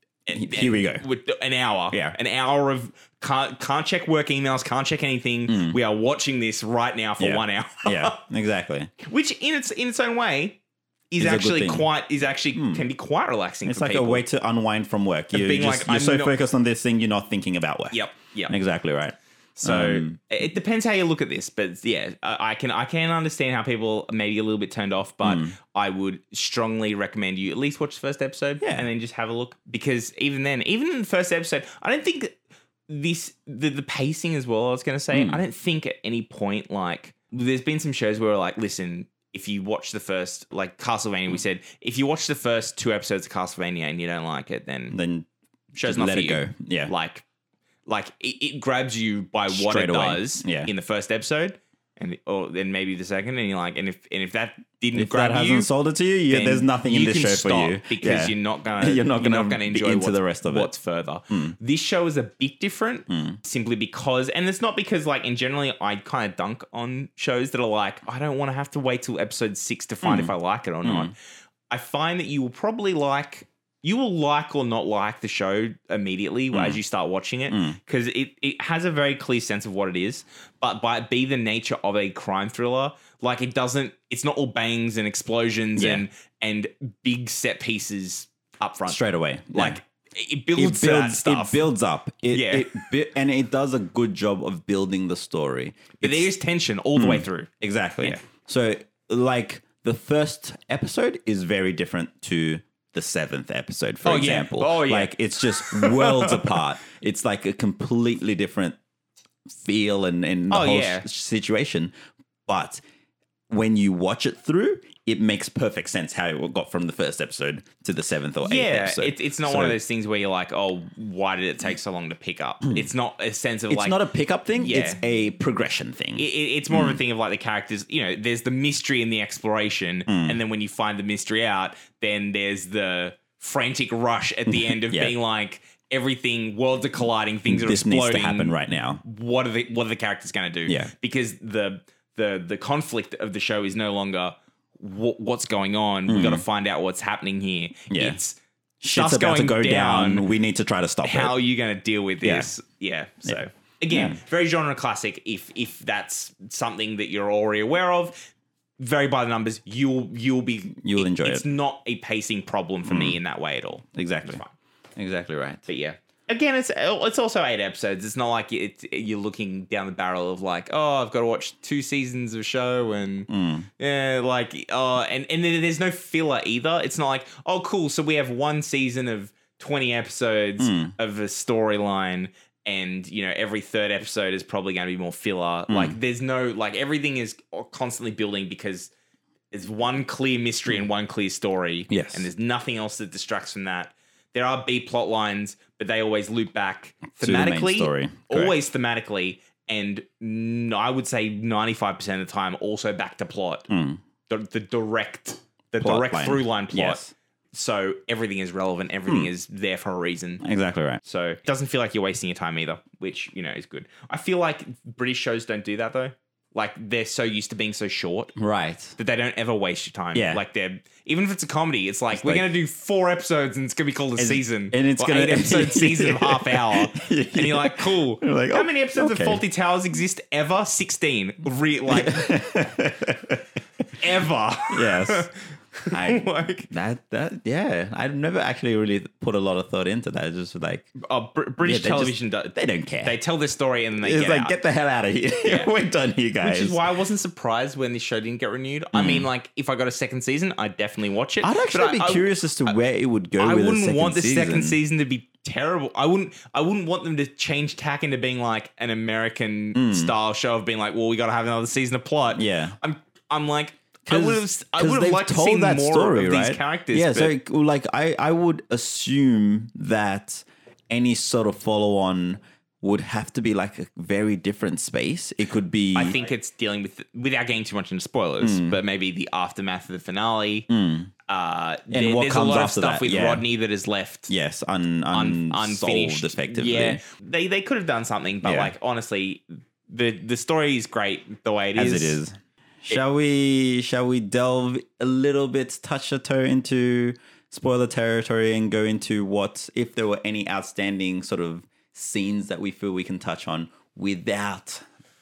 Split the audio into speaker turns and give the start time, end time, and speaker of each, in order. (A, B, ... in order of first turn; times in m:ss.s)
0:00.3-0:08.2 A
0:00.3-0:01.0 B
0:05.5-0:05.8 B
0:07.2-0:08.9 B
0:09.0-0:10.6 A
0:11.1-0:14.2 A
0:11.2-0:11.9 B
0:12.5-0:12.8 B
0:13.6-0:20.2 B
0:15.3-0:16.3 A
0:17.9-0:18.5 A
0:19.6-0:45.0 A
0:25.2-0:25.6 B
0:28.6-0:28.9 B
0:35.1-0:35.4 B
0:44.9-0:45.3 B
0:45.8-0:47.2 A
0:45.8-0:46.9 B
0:47.8-0:55.7 A
0:49.5-0:50.7 B
0:54.9-1:00.7 B
0:56.3-1:11.1 A
1:01.3-1:01.5 B
1:03.1-1:03.4 B
1:10.0-1:10.3 B
1:10.8-1:11.1 B
1:11.7-1:29.0 A
1:16.5-1:16.8 B
1:17.5-1:17.8 B
1:25.8-1:26.0 B
1:28.9-1:29.8 B
1:29.5-1:31.6 A
1:30.6-1:36.3 B
1:32.3-1:32.9 A
1:36.0-1:37.5 A
1:37.0-1:48.8 B
1:44.0-1:46.6 A
1:49.5-1:51.9 B
1:50.5-1:51.1 A
1:52.5-1:52.8 B
1:53.5-1:59.8 B
1:58.4-2:04.0 A
2:03.7-2:07.0 B
2:04.6-2:05.0 A
2:06.2-2:28.4 A
2:10.1-2:10.4 B
2:14.5-2:15.1 B
2:17.4-2:19.0 B
2:26.1-2:26.4 B
2:27.9-2:28.2 B
2:28.8-2:31.3 B
2:28.9-2:30.3 A
2:31.0-2:44.5 A
2:32.2-2:32.5 B
2:33.9-2:34.2 B
2:40.8-2:41.4 B
2:42.9-2:43.2 B
2:43.9-2:44.4 B
2:45.0-2:45.6 B
2:45.7-3:08.9 A
2:53.3-2:53.7 B
3:00.6-3:00.9 B
3:05.7-3:06.0 B
3:09.5-3:23.7 A
3:11.9-3:12.3 B
3:17.2-3:18.6 B
3:23.7-3:24.0 B
3:24.3-3:27.0 A
3:25.8-3:27.1 B
3:27.5-3:30.4 A
3:30.4-3:31.0 B
3:31.0-3:38.3 A
3:38.4-3:39.0 B
3:39.0-3:52.3 A
3:40.1-3:40.4 B
3:42.1-3:42.5 B
3:44.2-3:49.4 B
3:51.9-3:53.4 B
3:54.0-3:56.7 A
3:54.7-3:55.3 B
3:55.9-4:00.9 B
4:01.0-4:04.5 A
4:01.6-4:03.2 B
4:04.0-4:06.8 B
4:05.4-4:05.7 A
4:06.4-4:12.7 A
4:08.9-4:09.3 B
4:11.4-4:14.8 B
4:13.4-4:27.3 A
4:19.7-4:20.1 B
4:22.3-4:22.8 B
4:24.1-4:36.2 B
4:35.9-4:40.7 A
4:38.4-4:38.8 B
4:40.7-4:41.1 B
4:41.3-4:44.3 A
4:41.9-4:43.4 B
4:44.3-4:47.0 B
4:45.1-4:52.2 A
4:48.4-4:48.7 B
4:51.8-4:52.3 B
4:52.8-5:04.8 B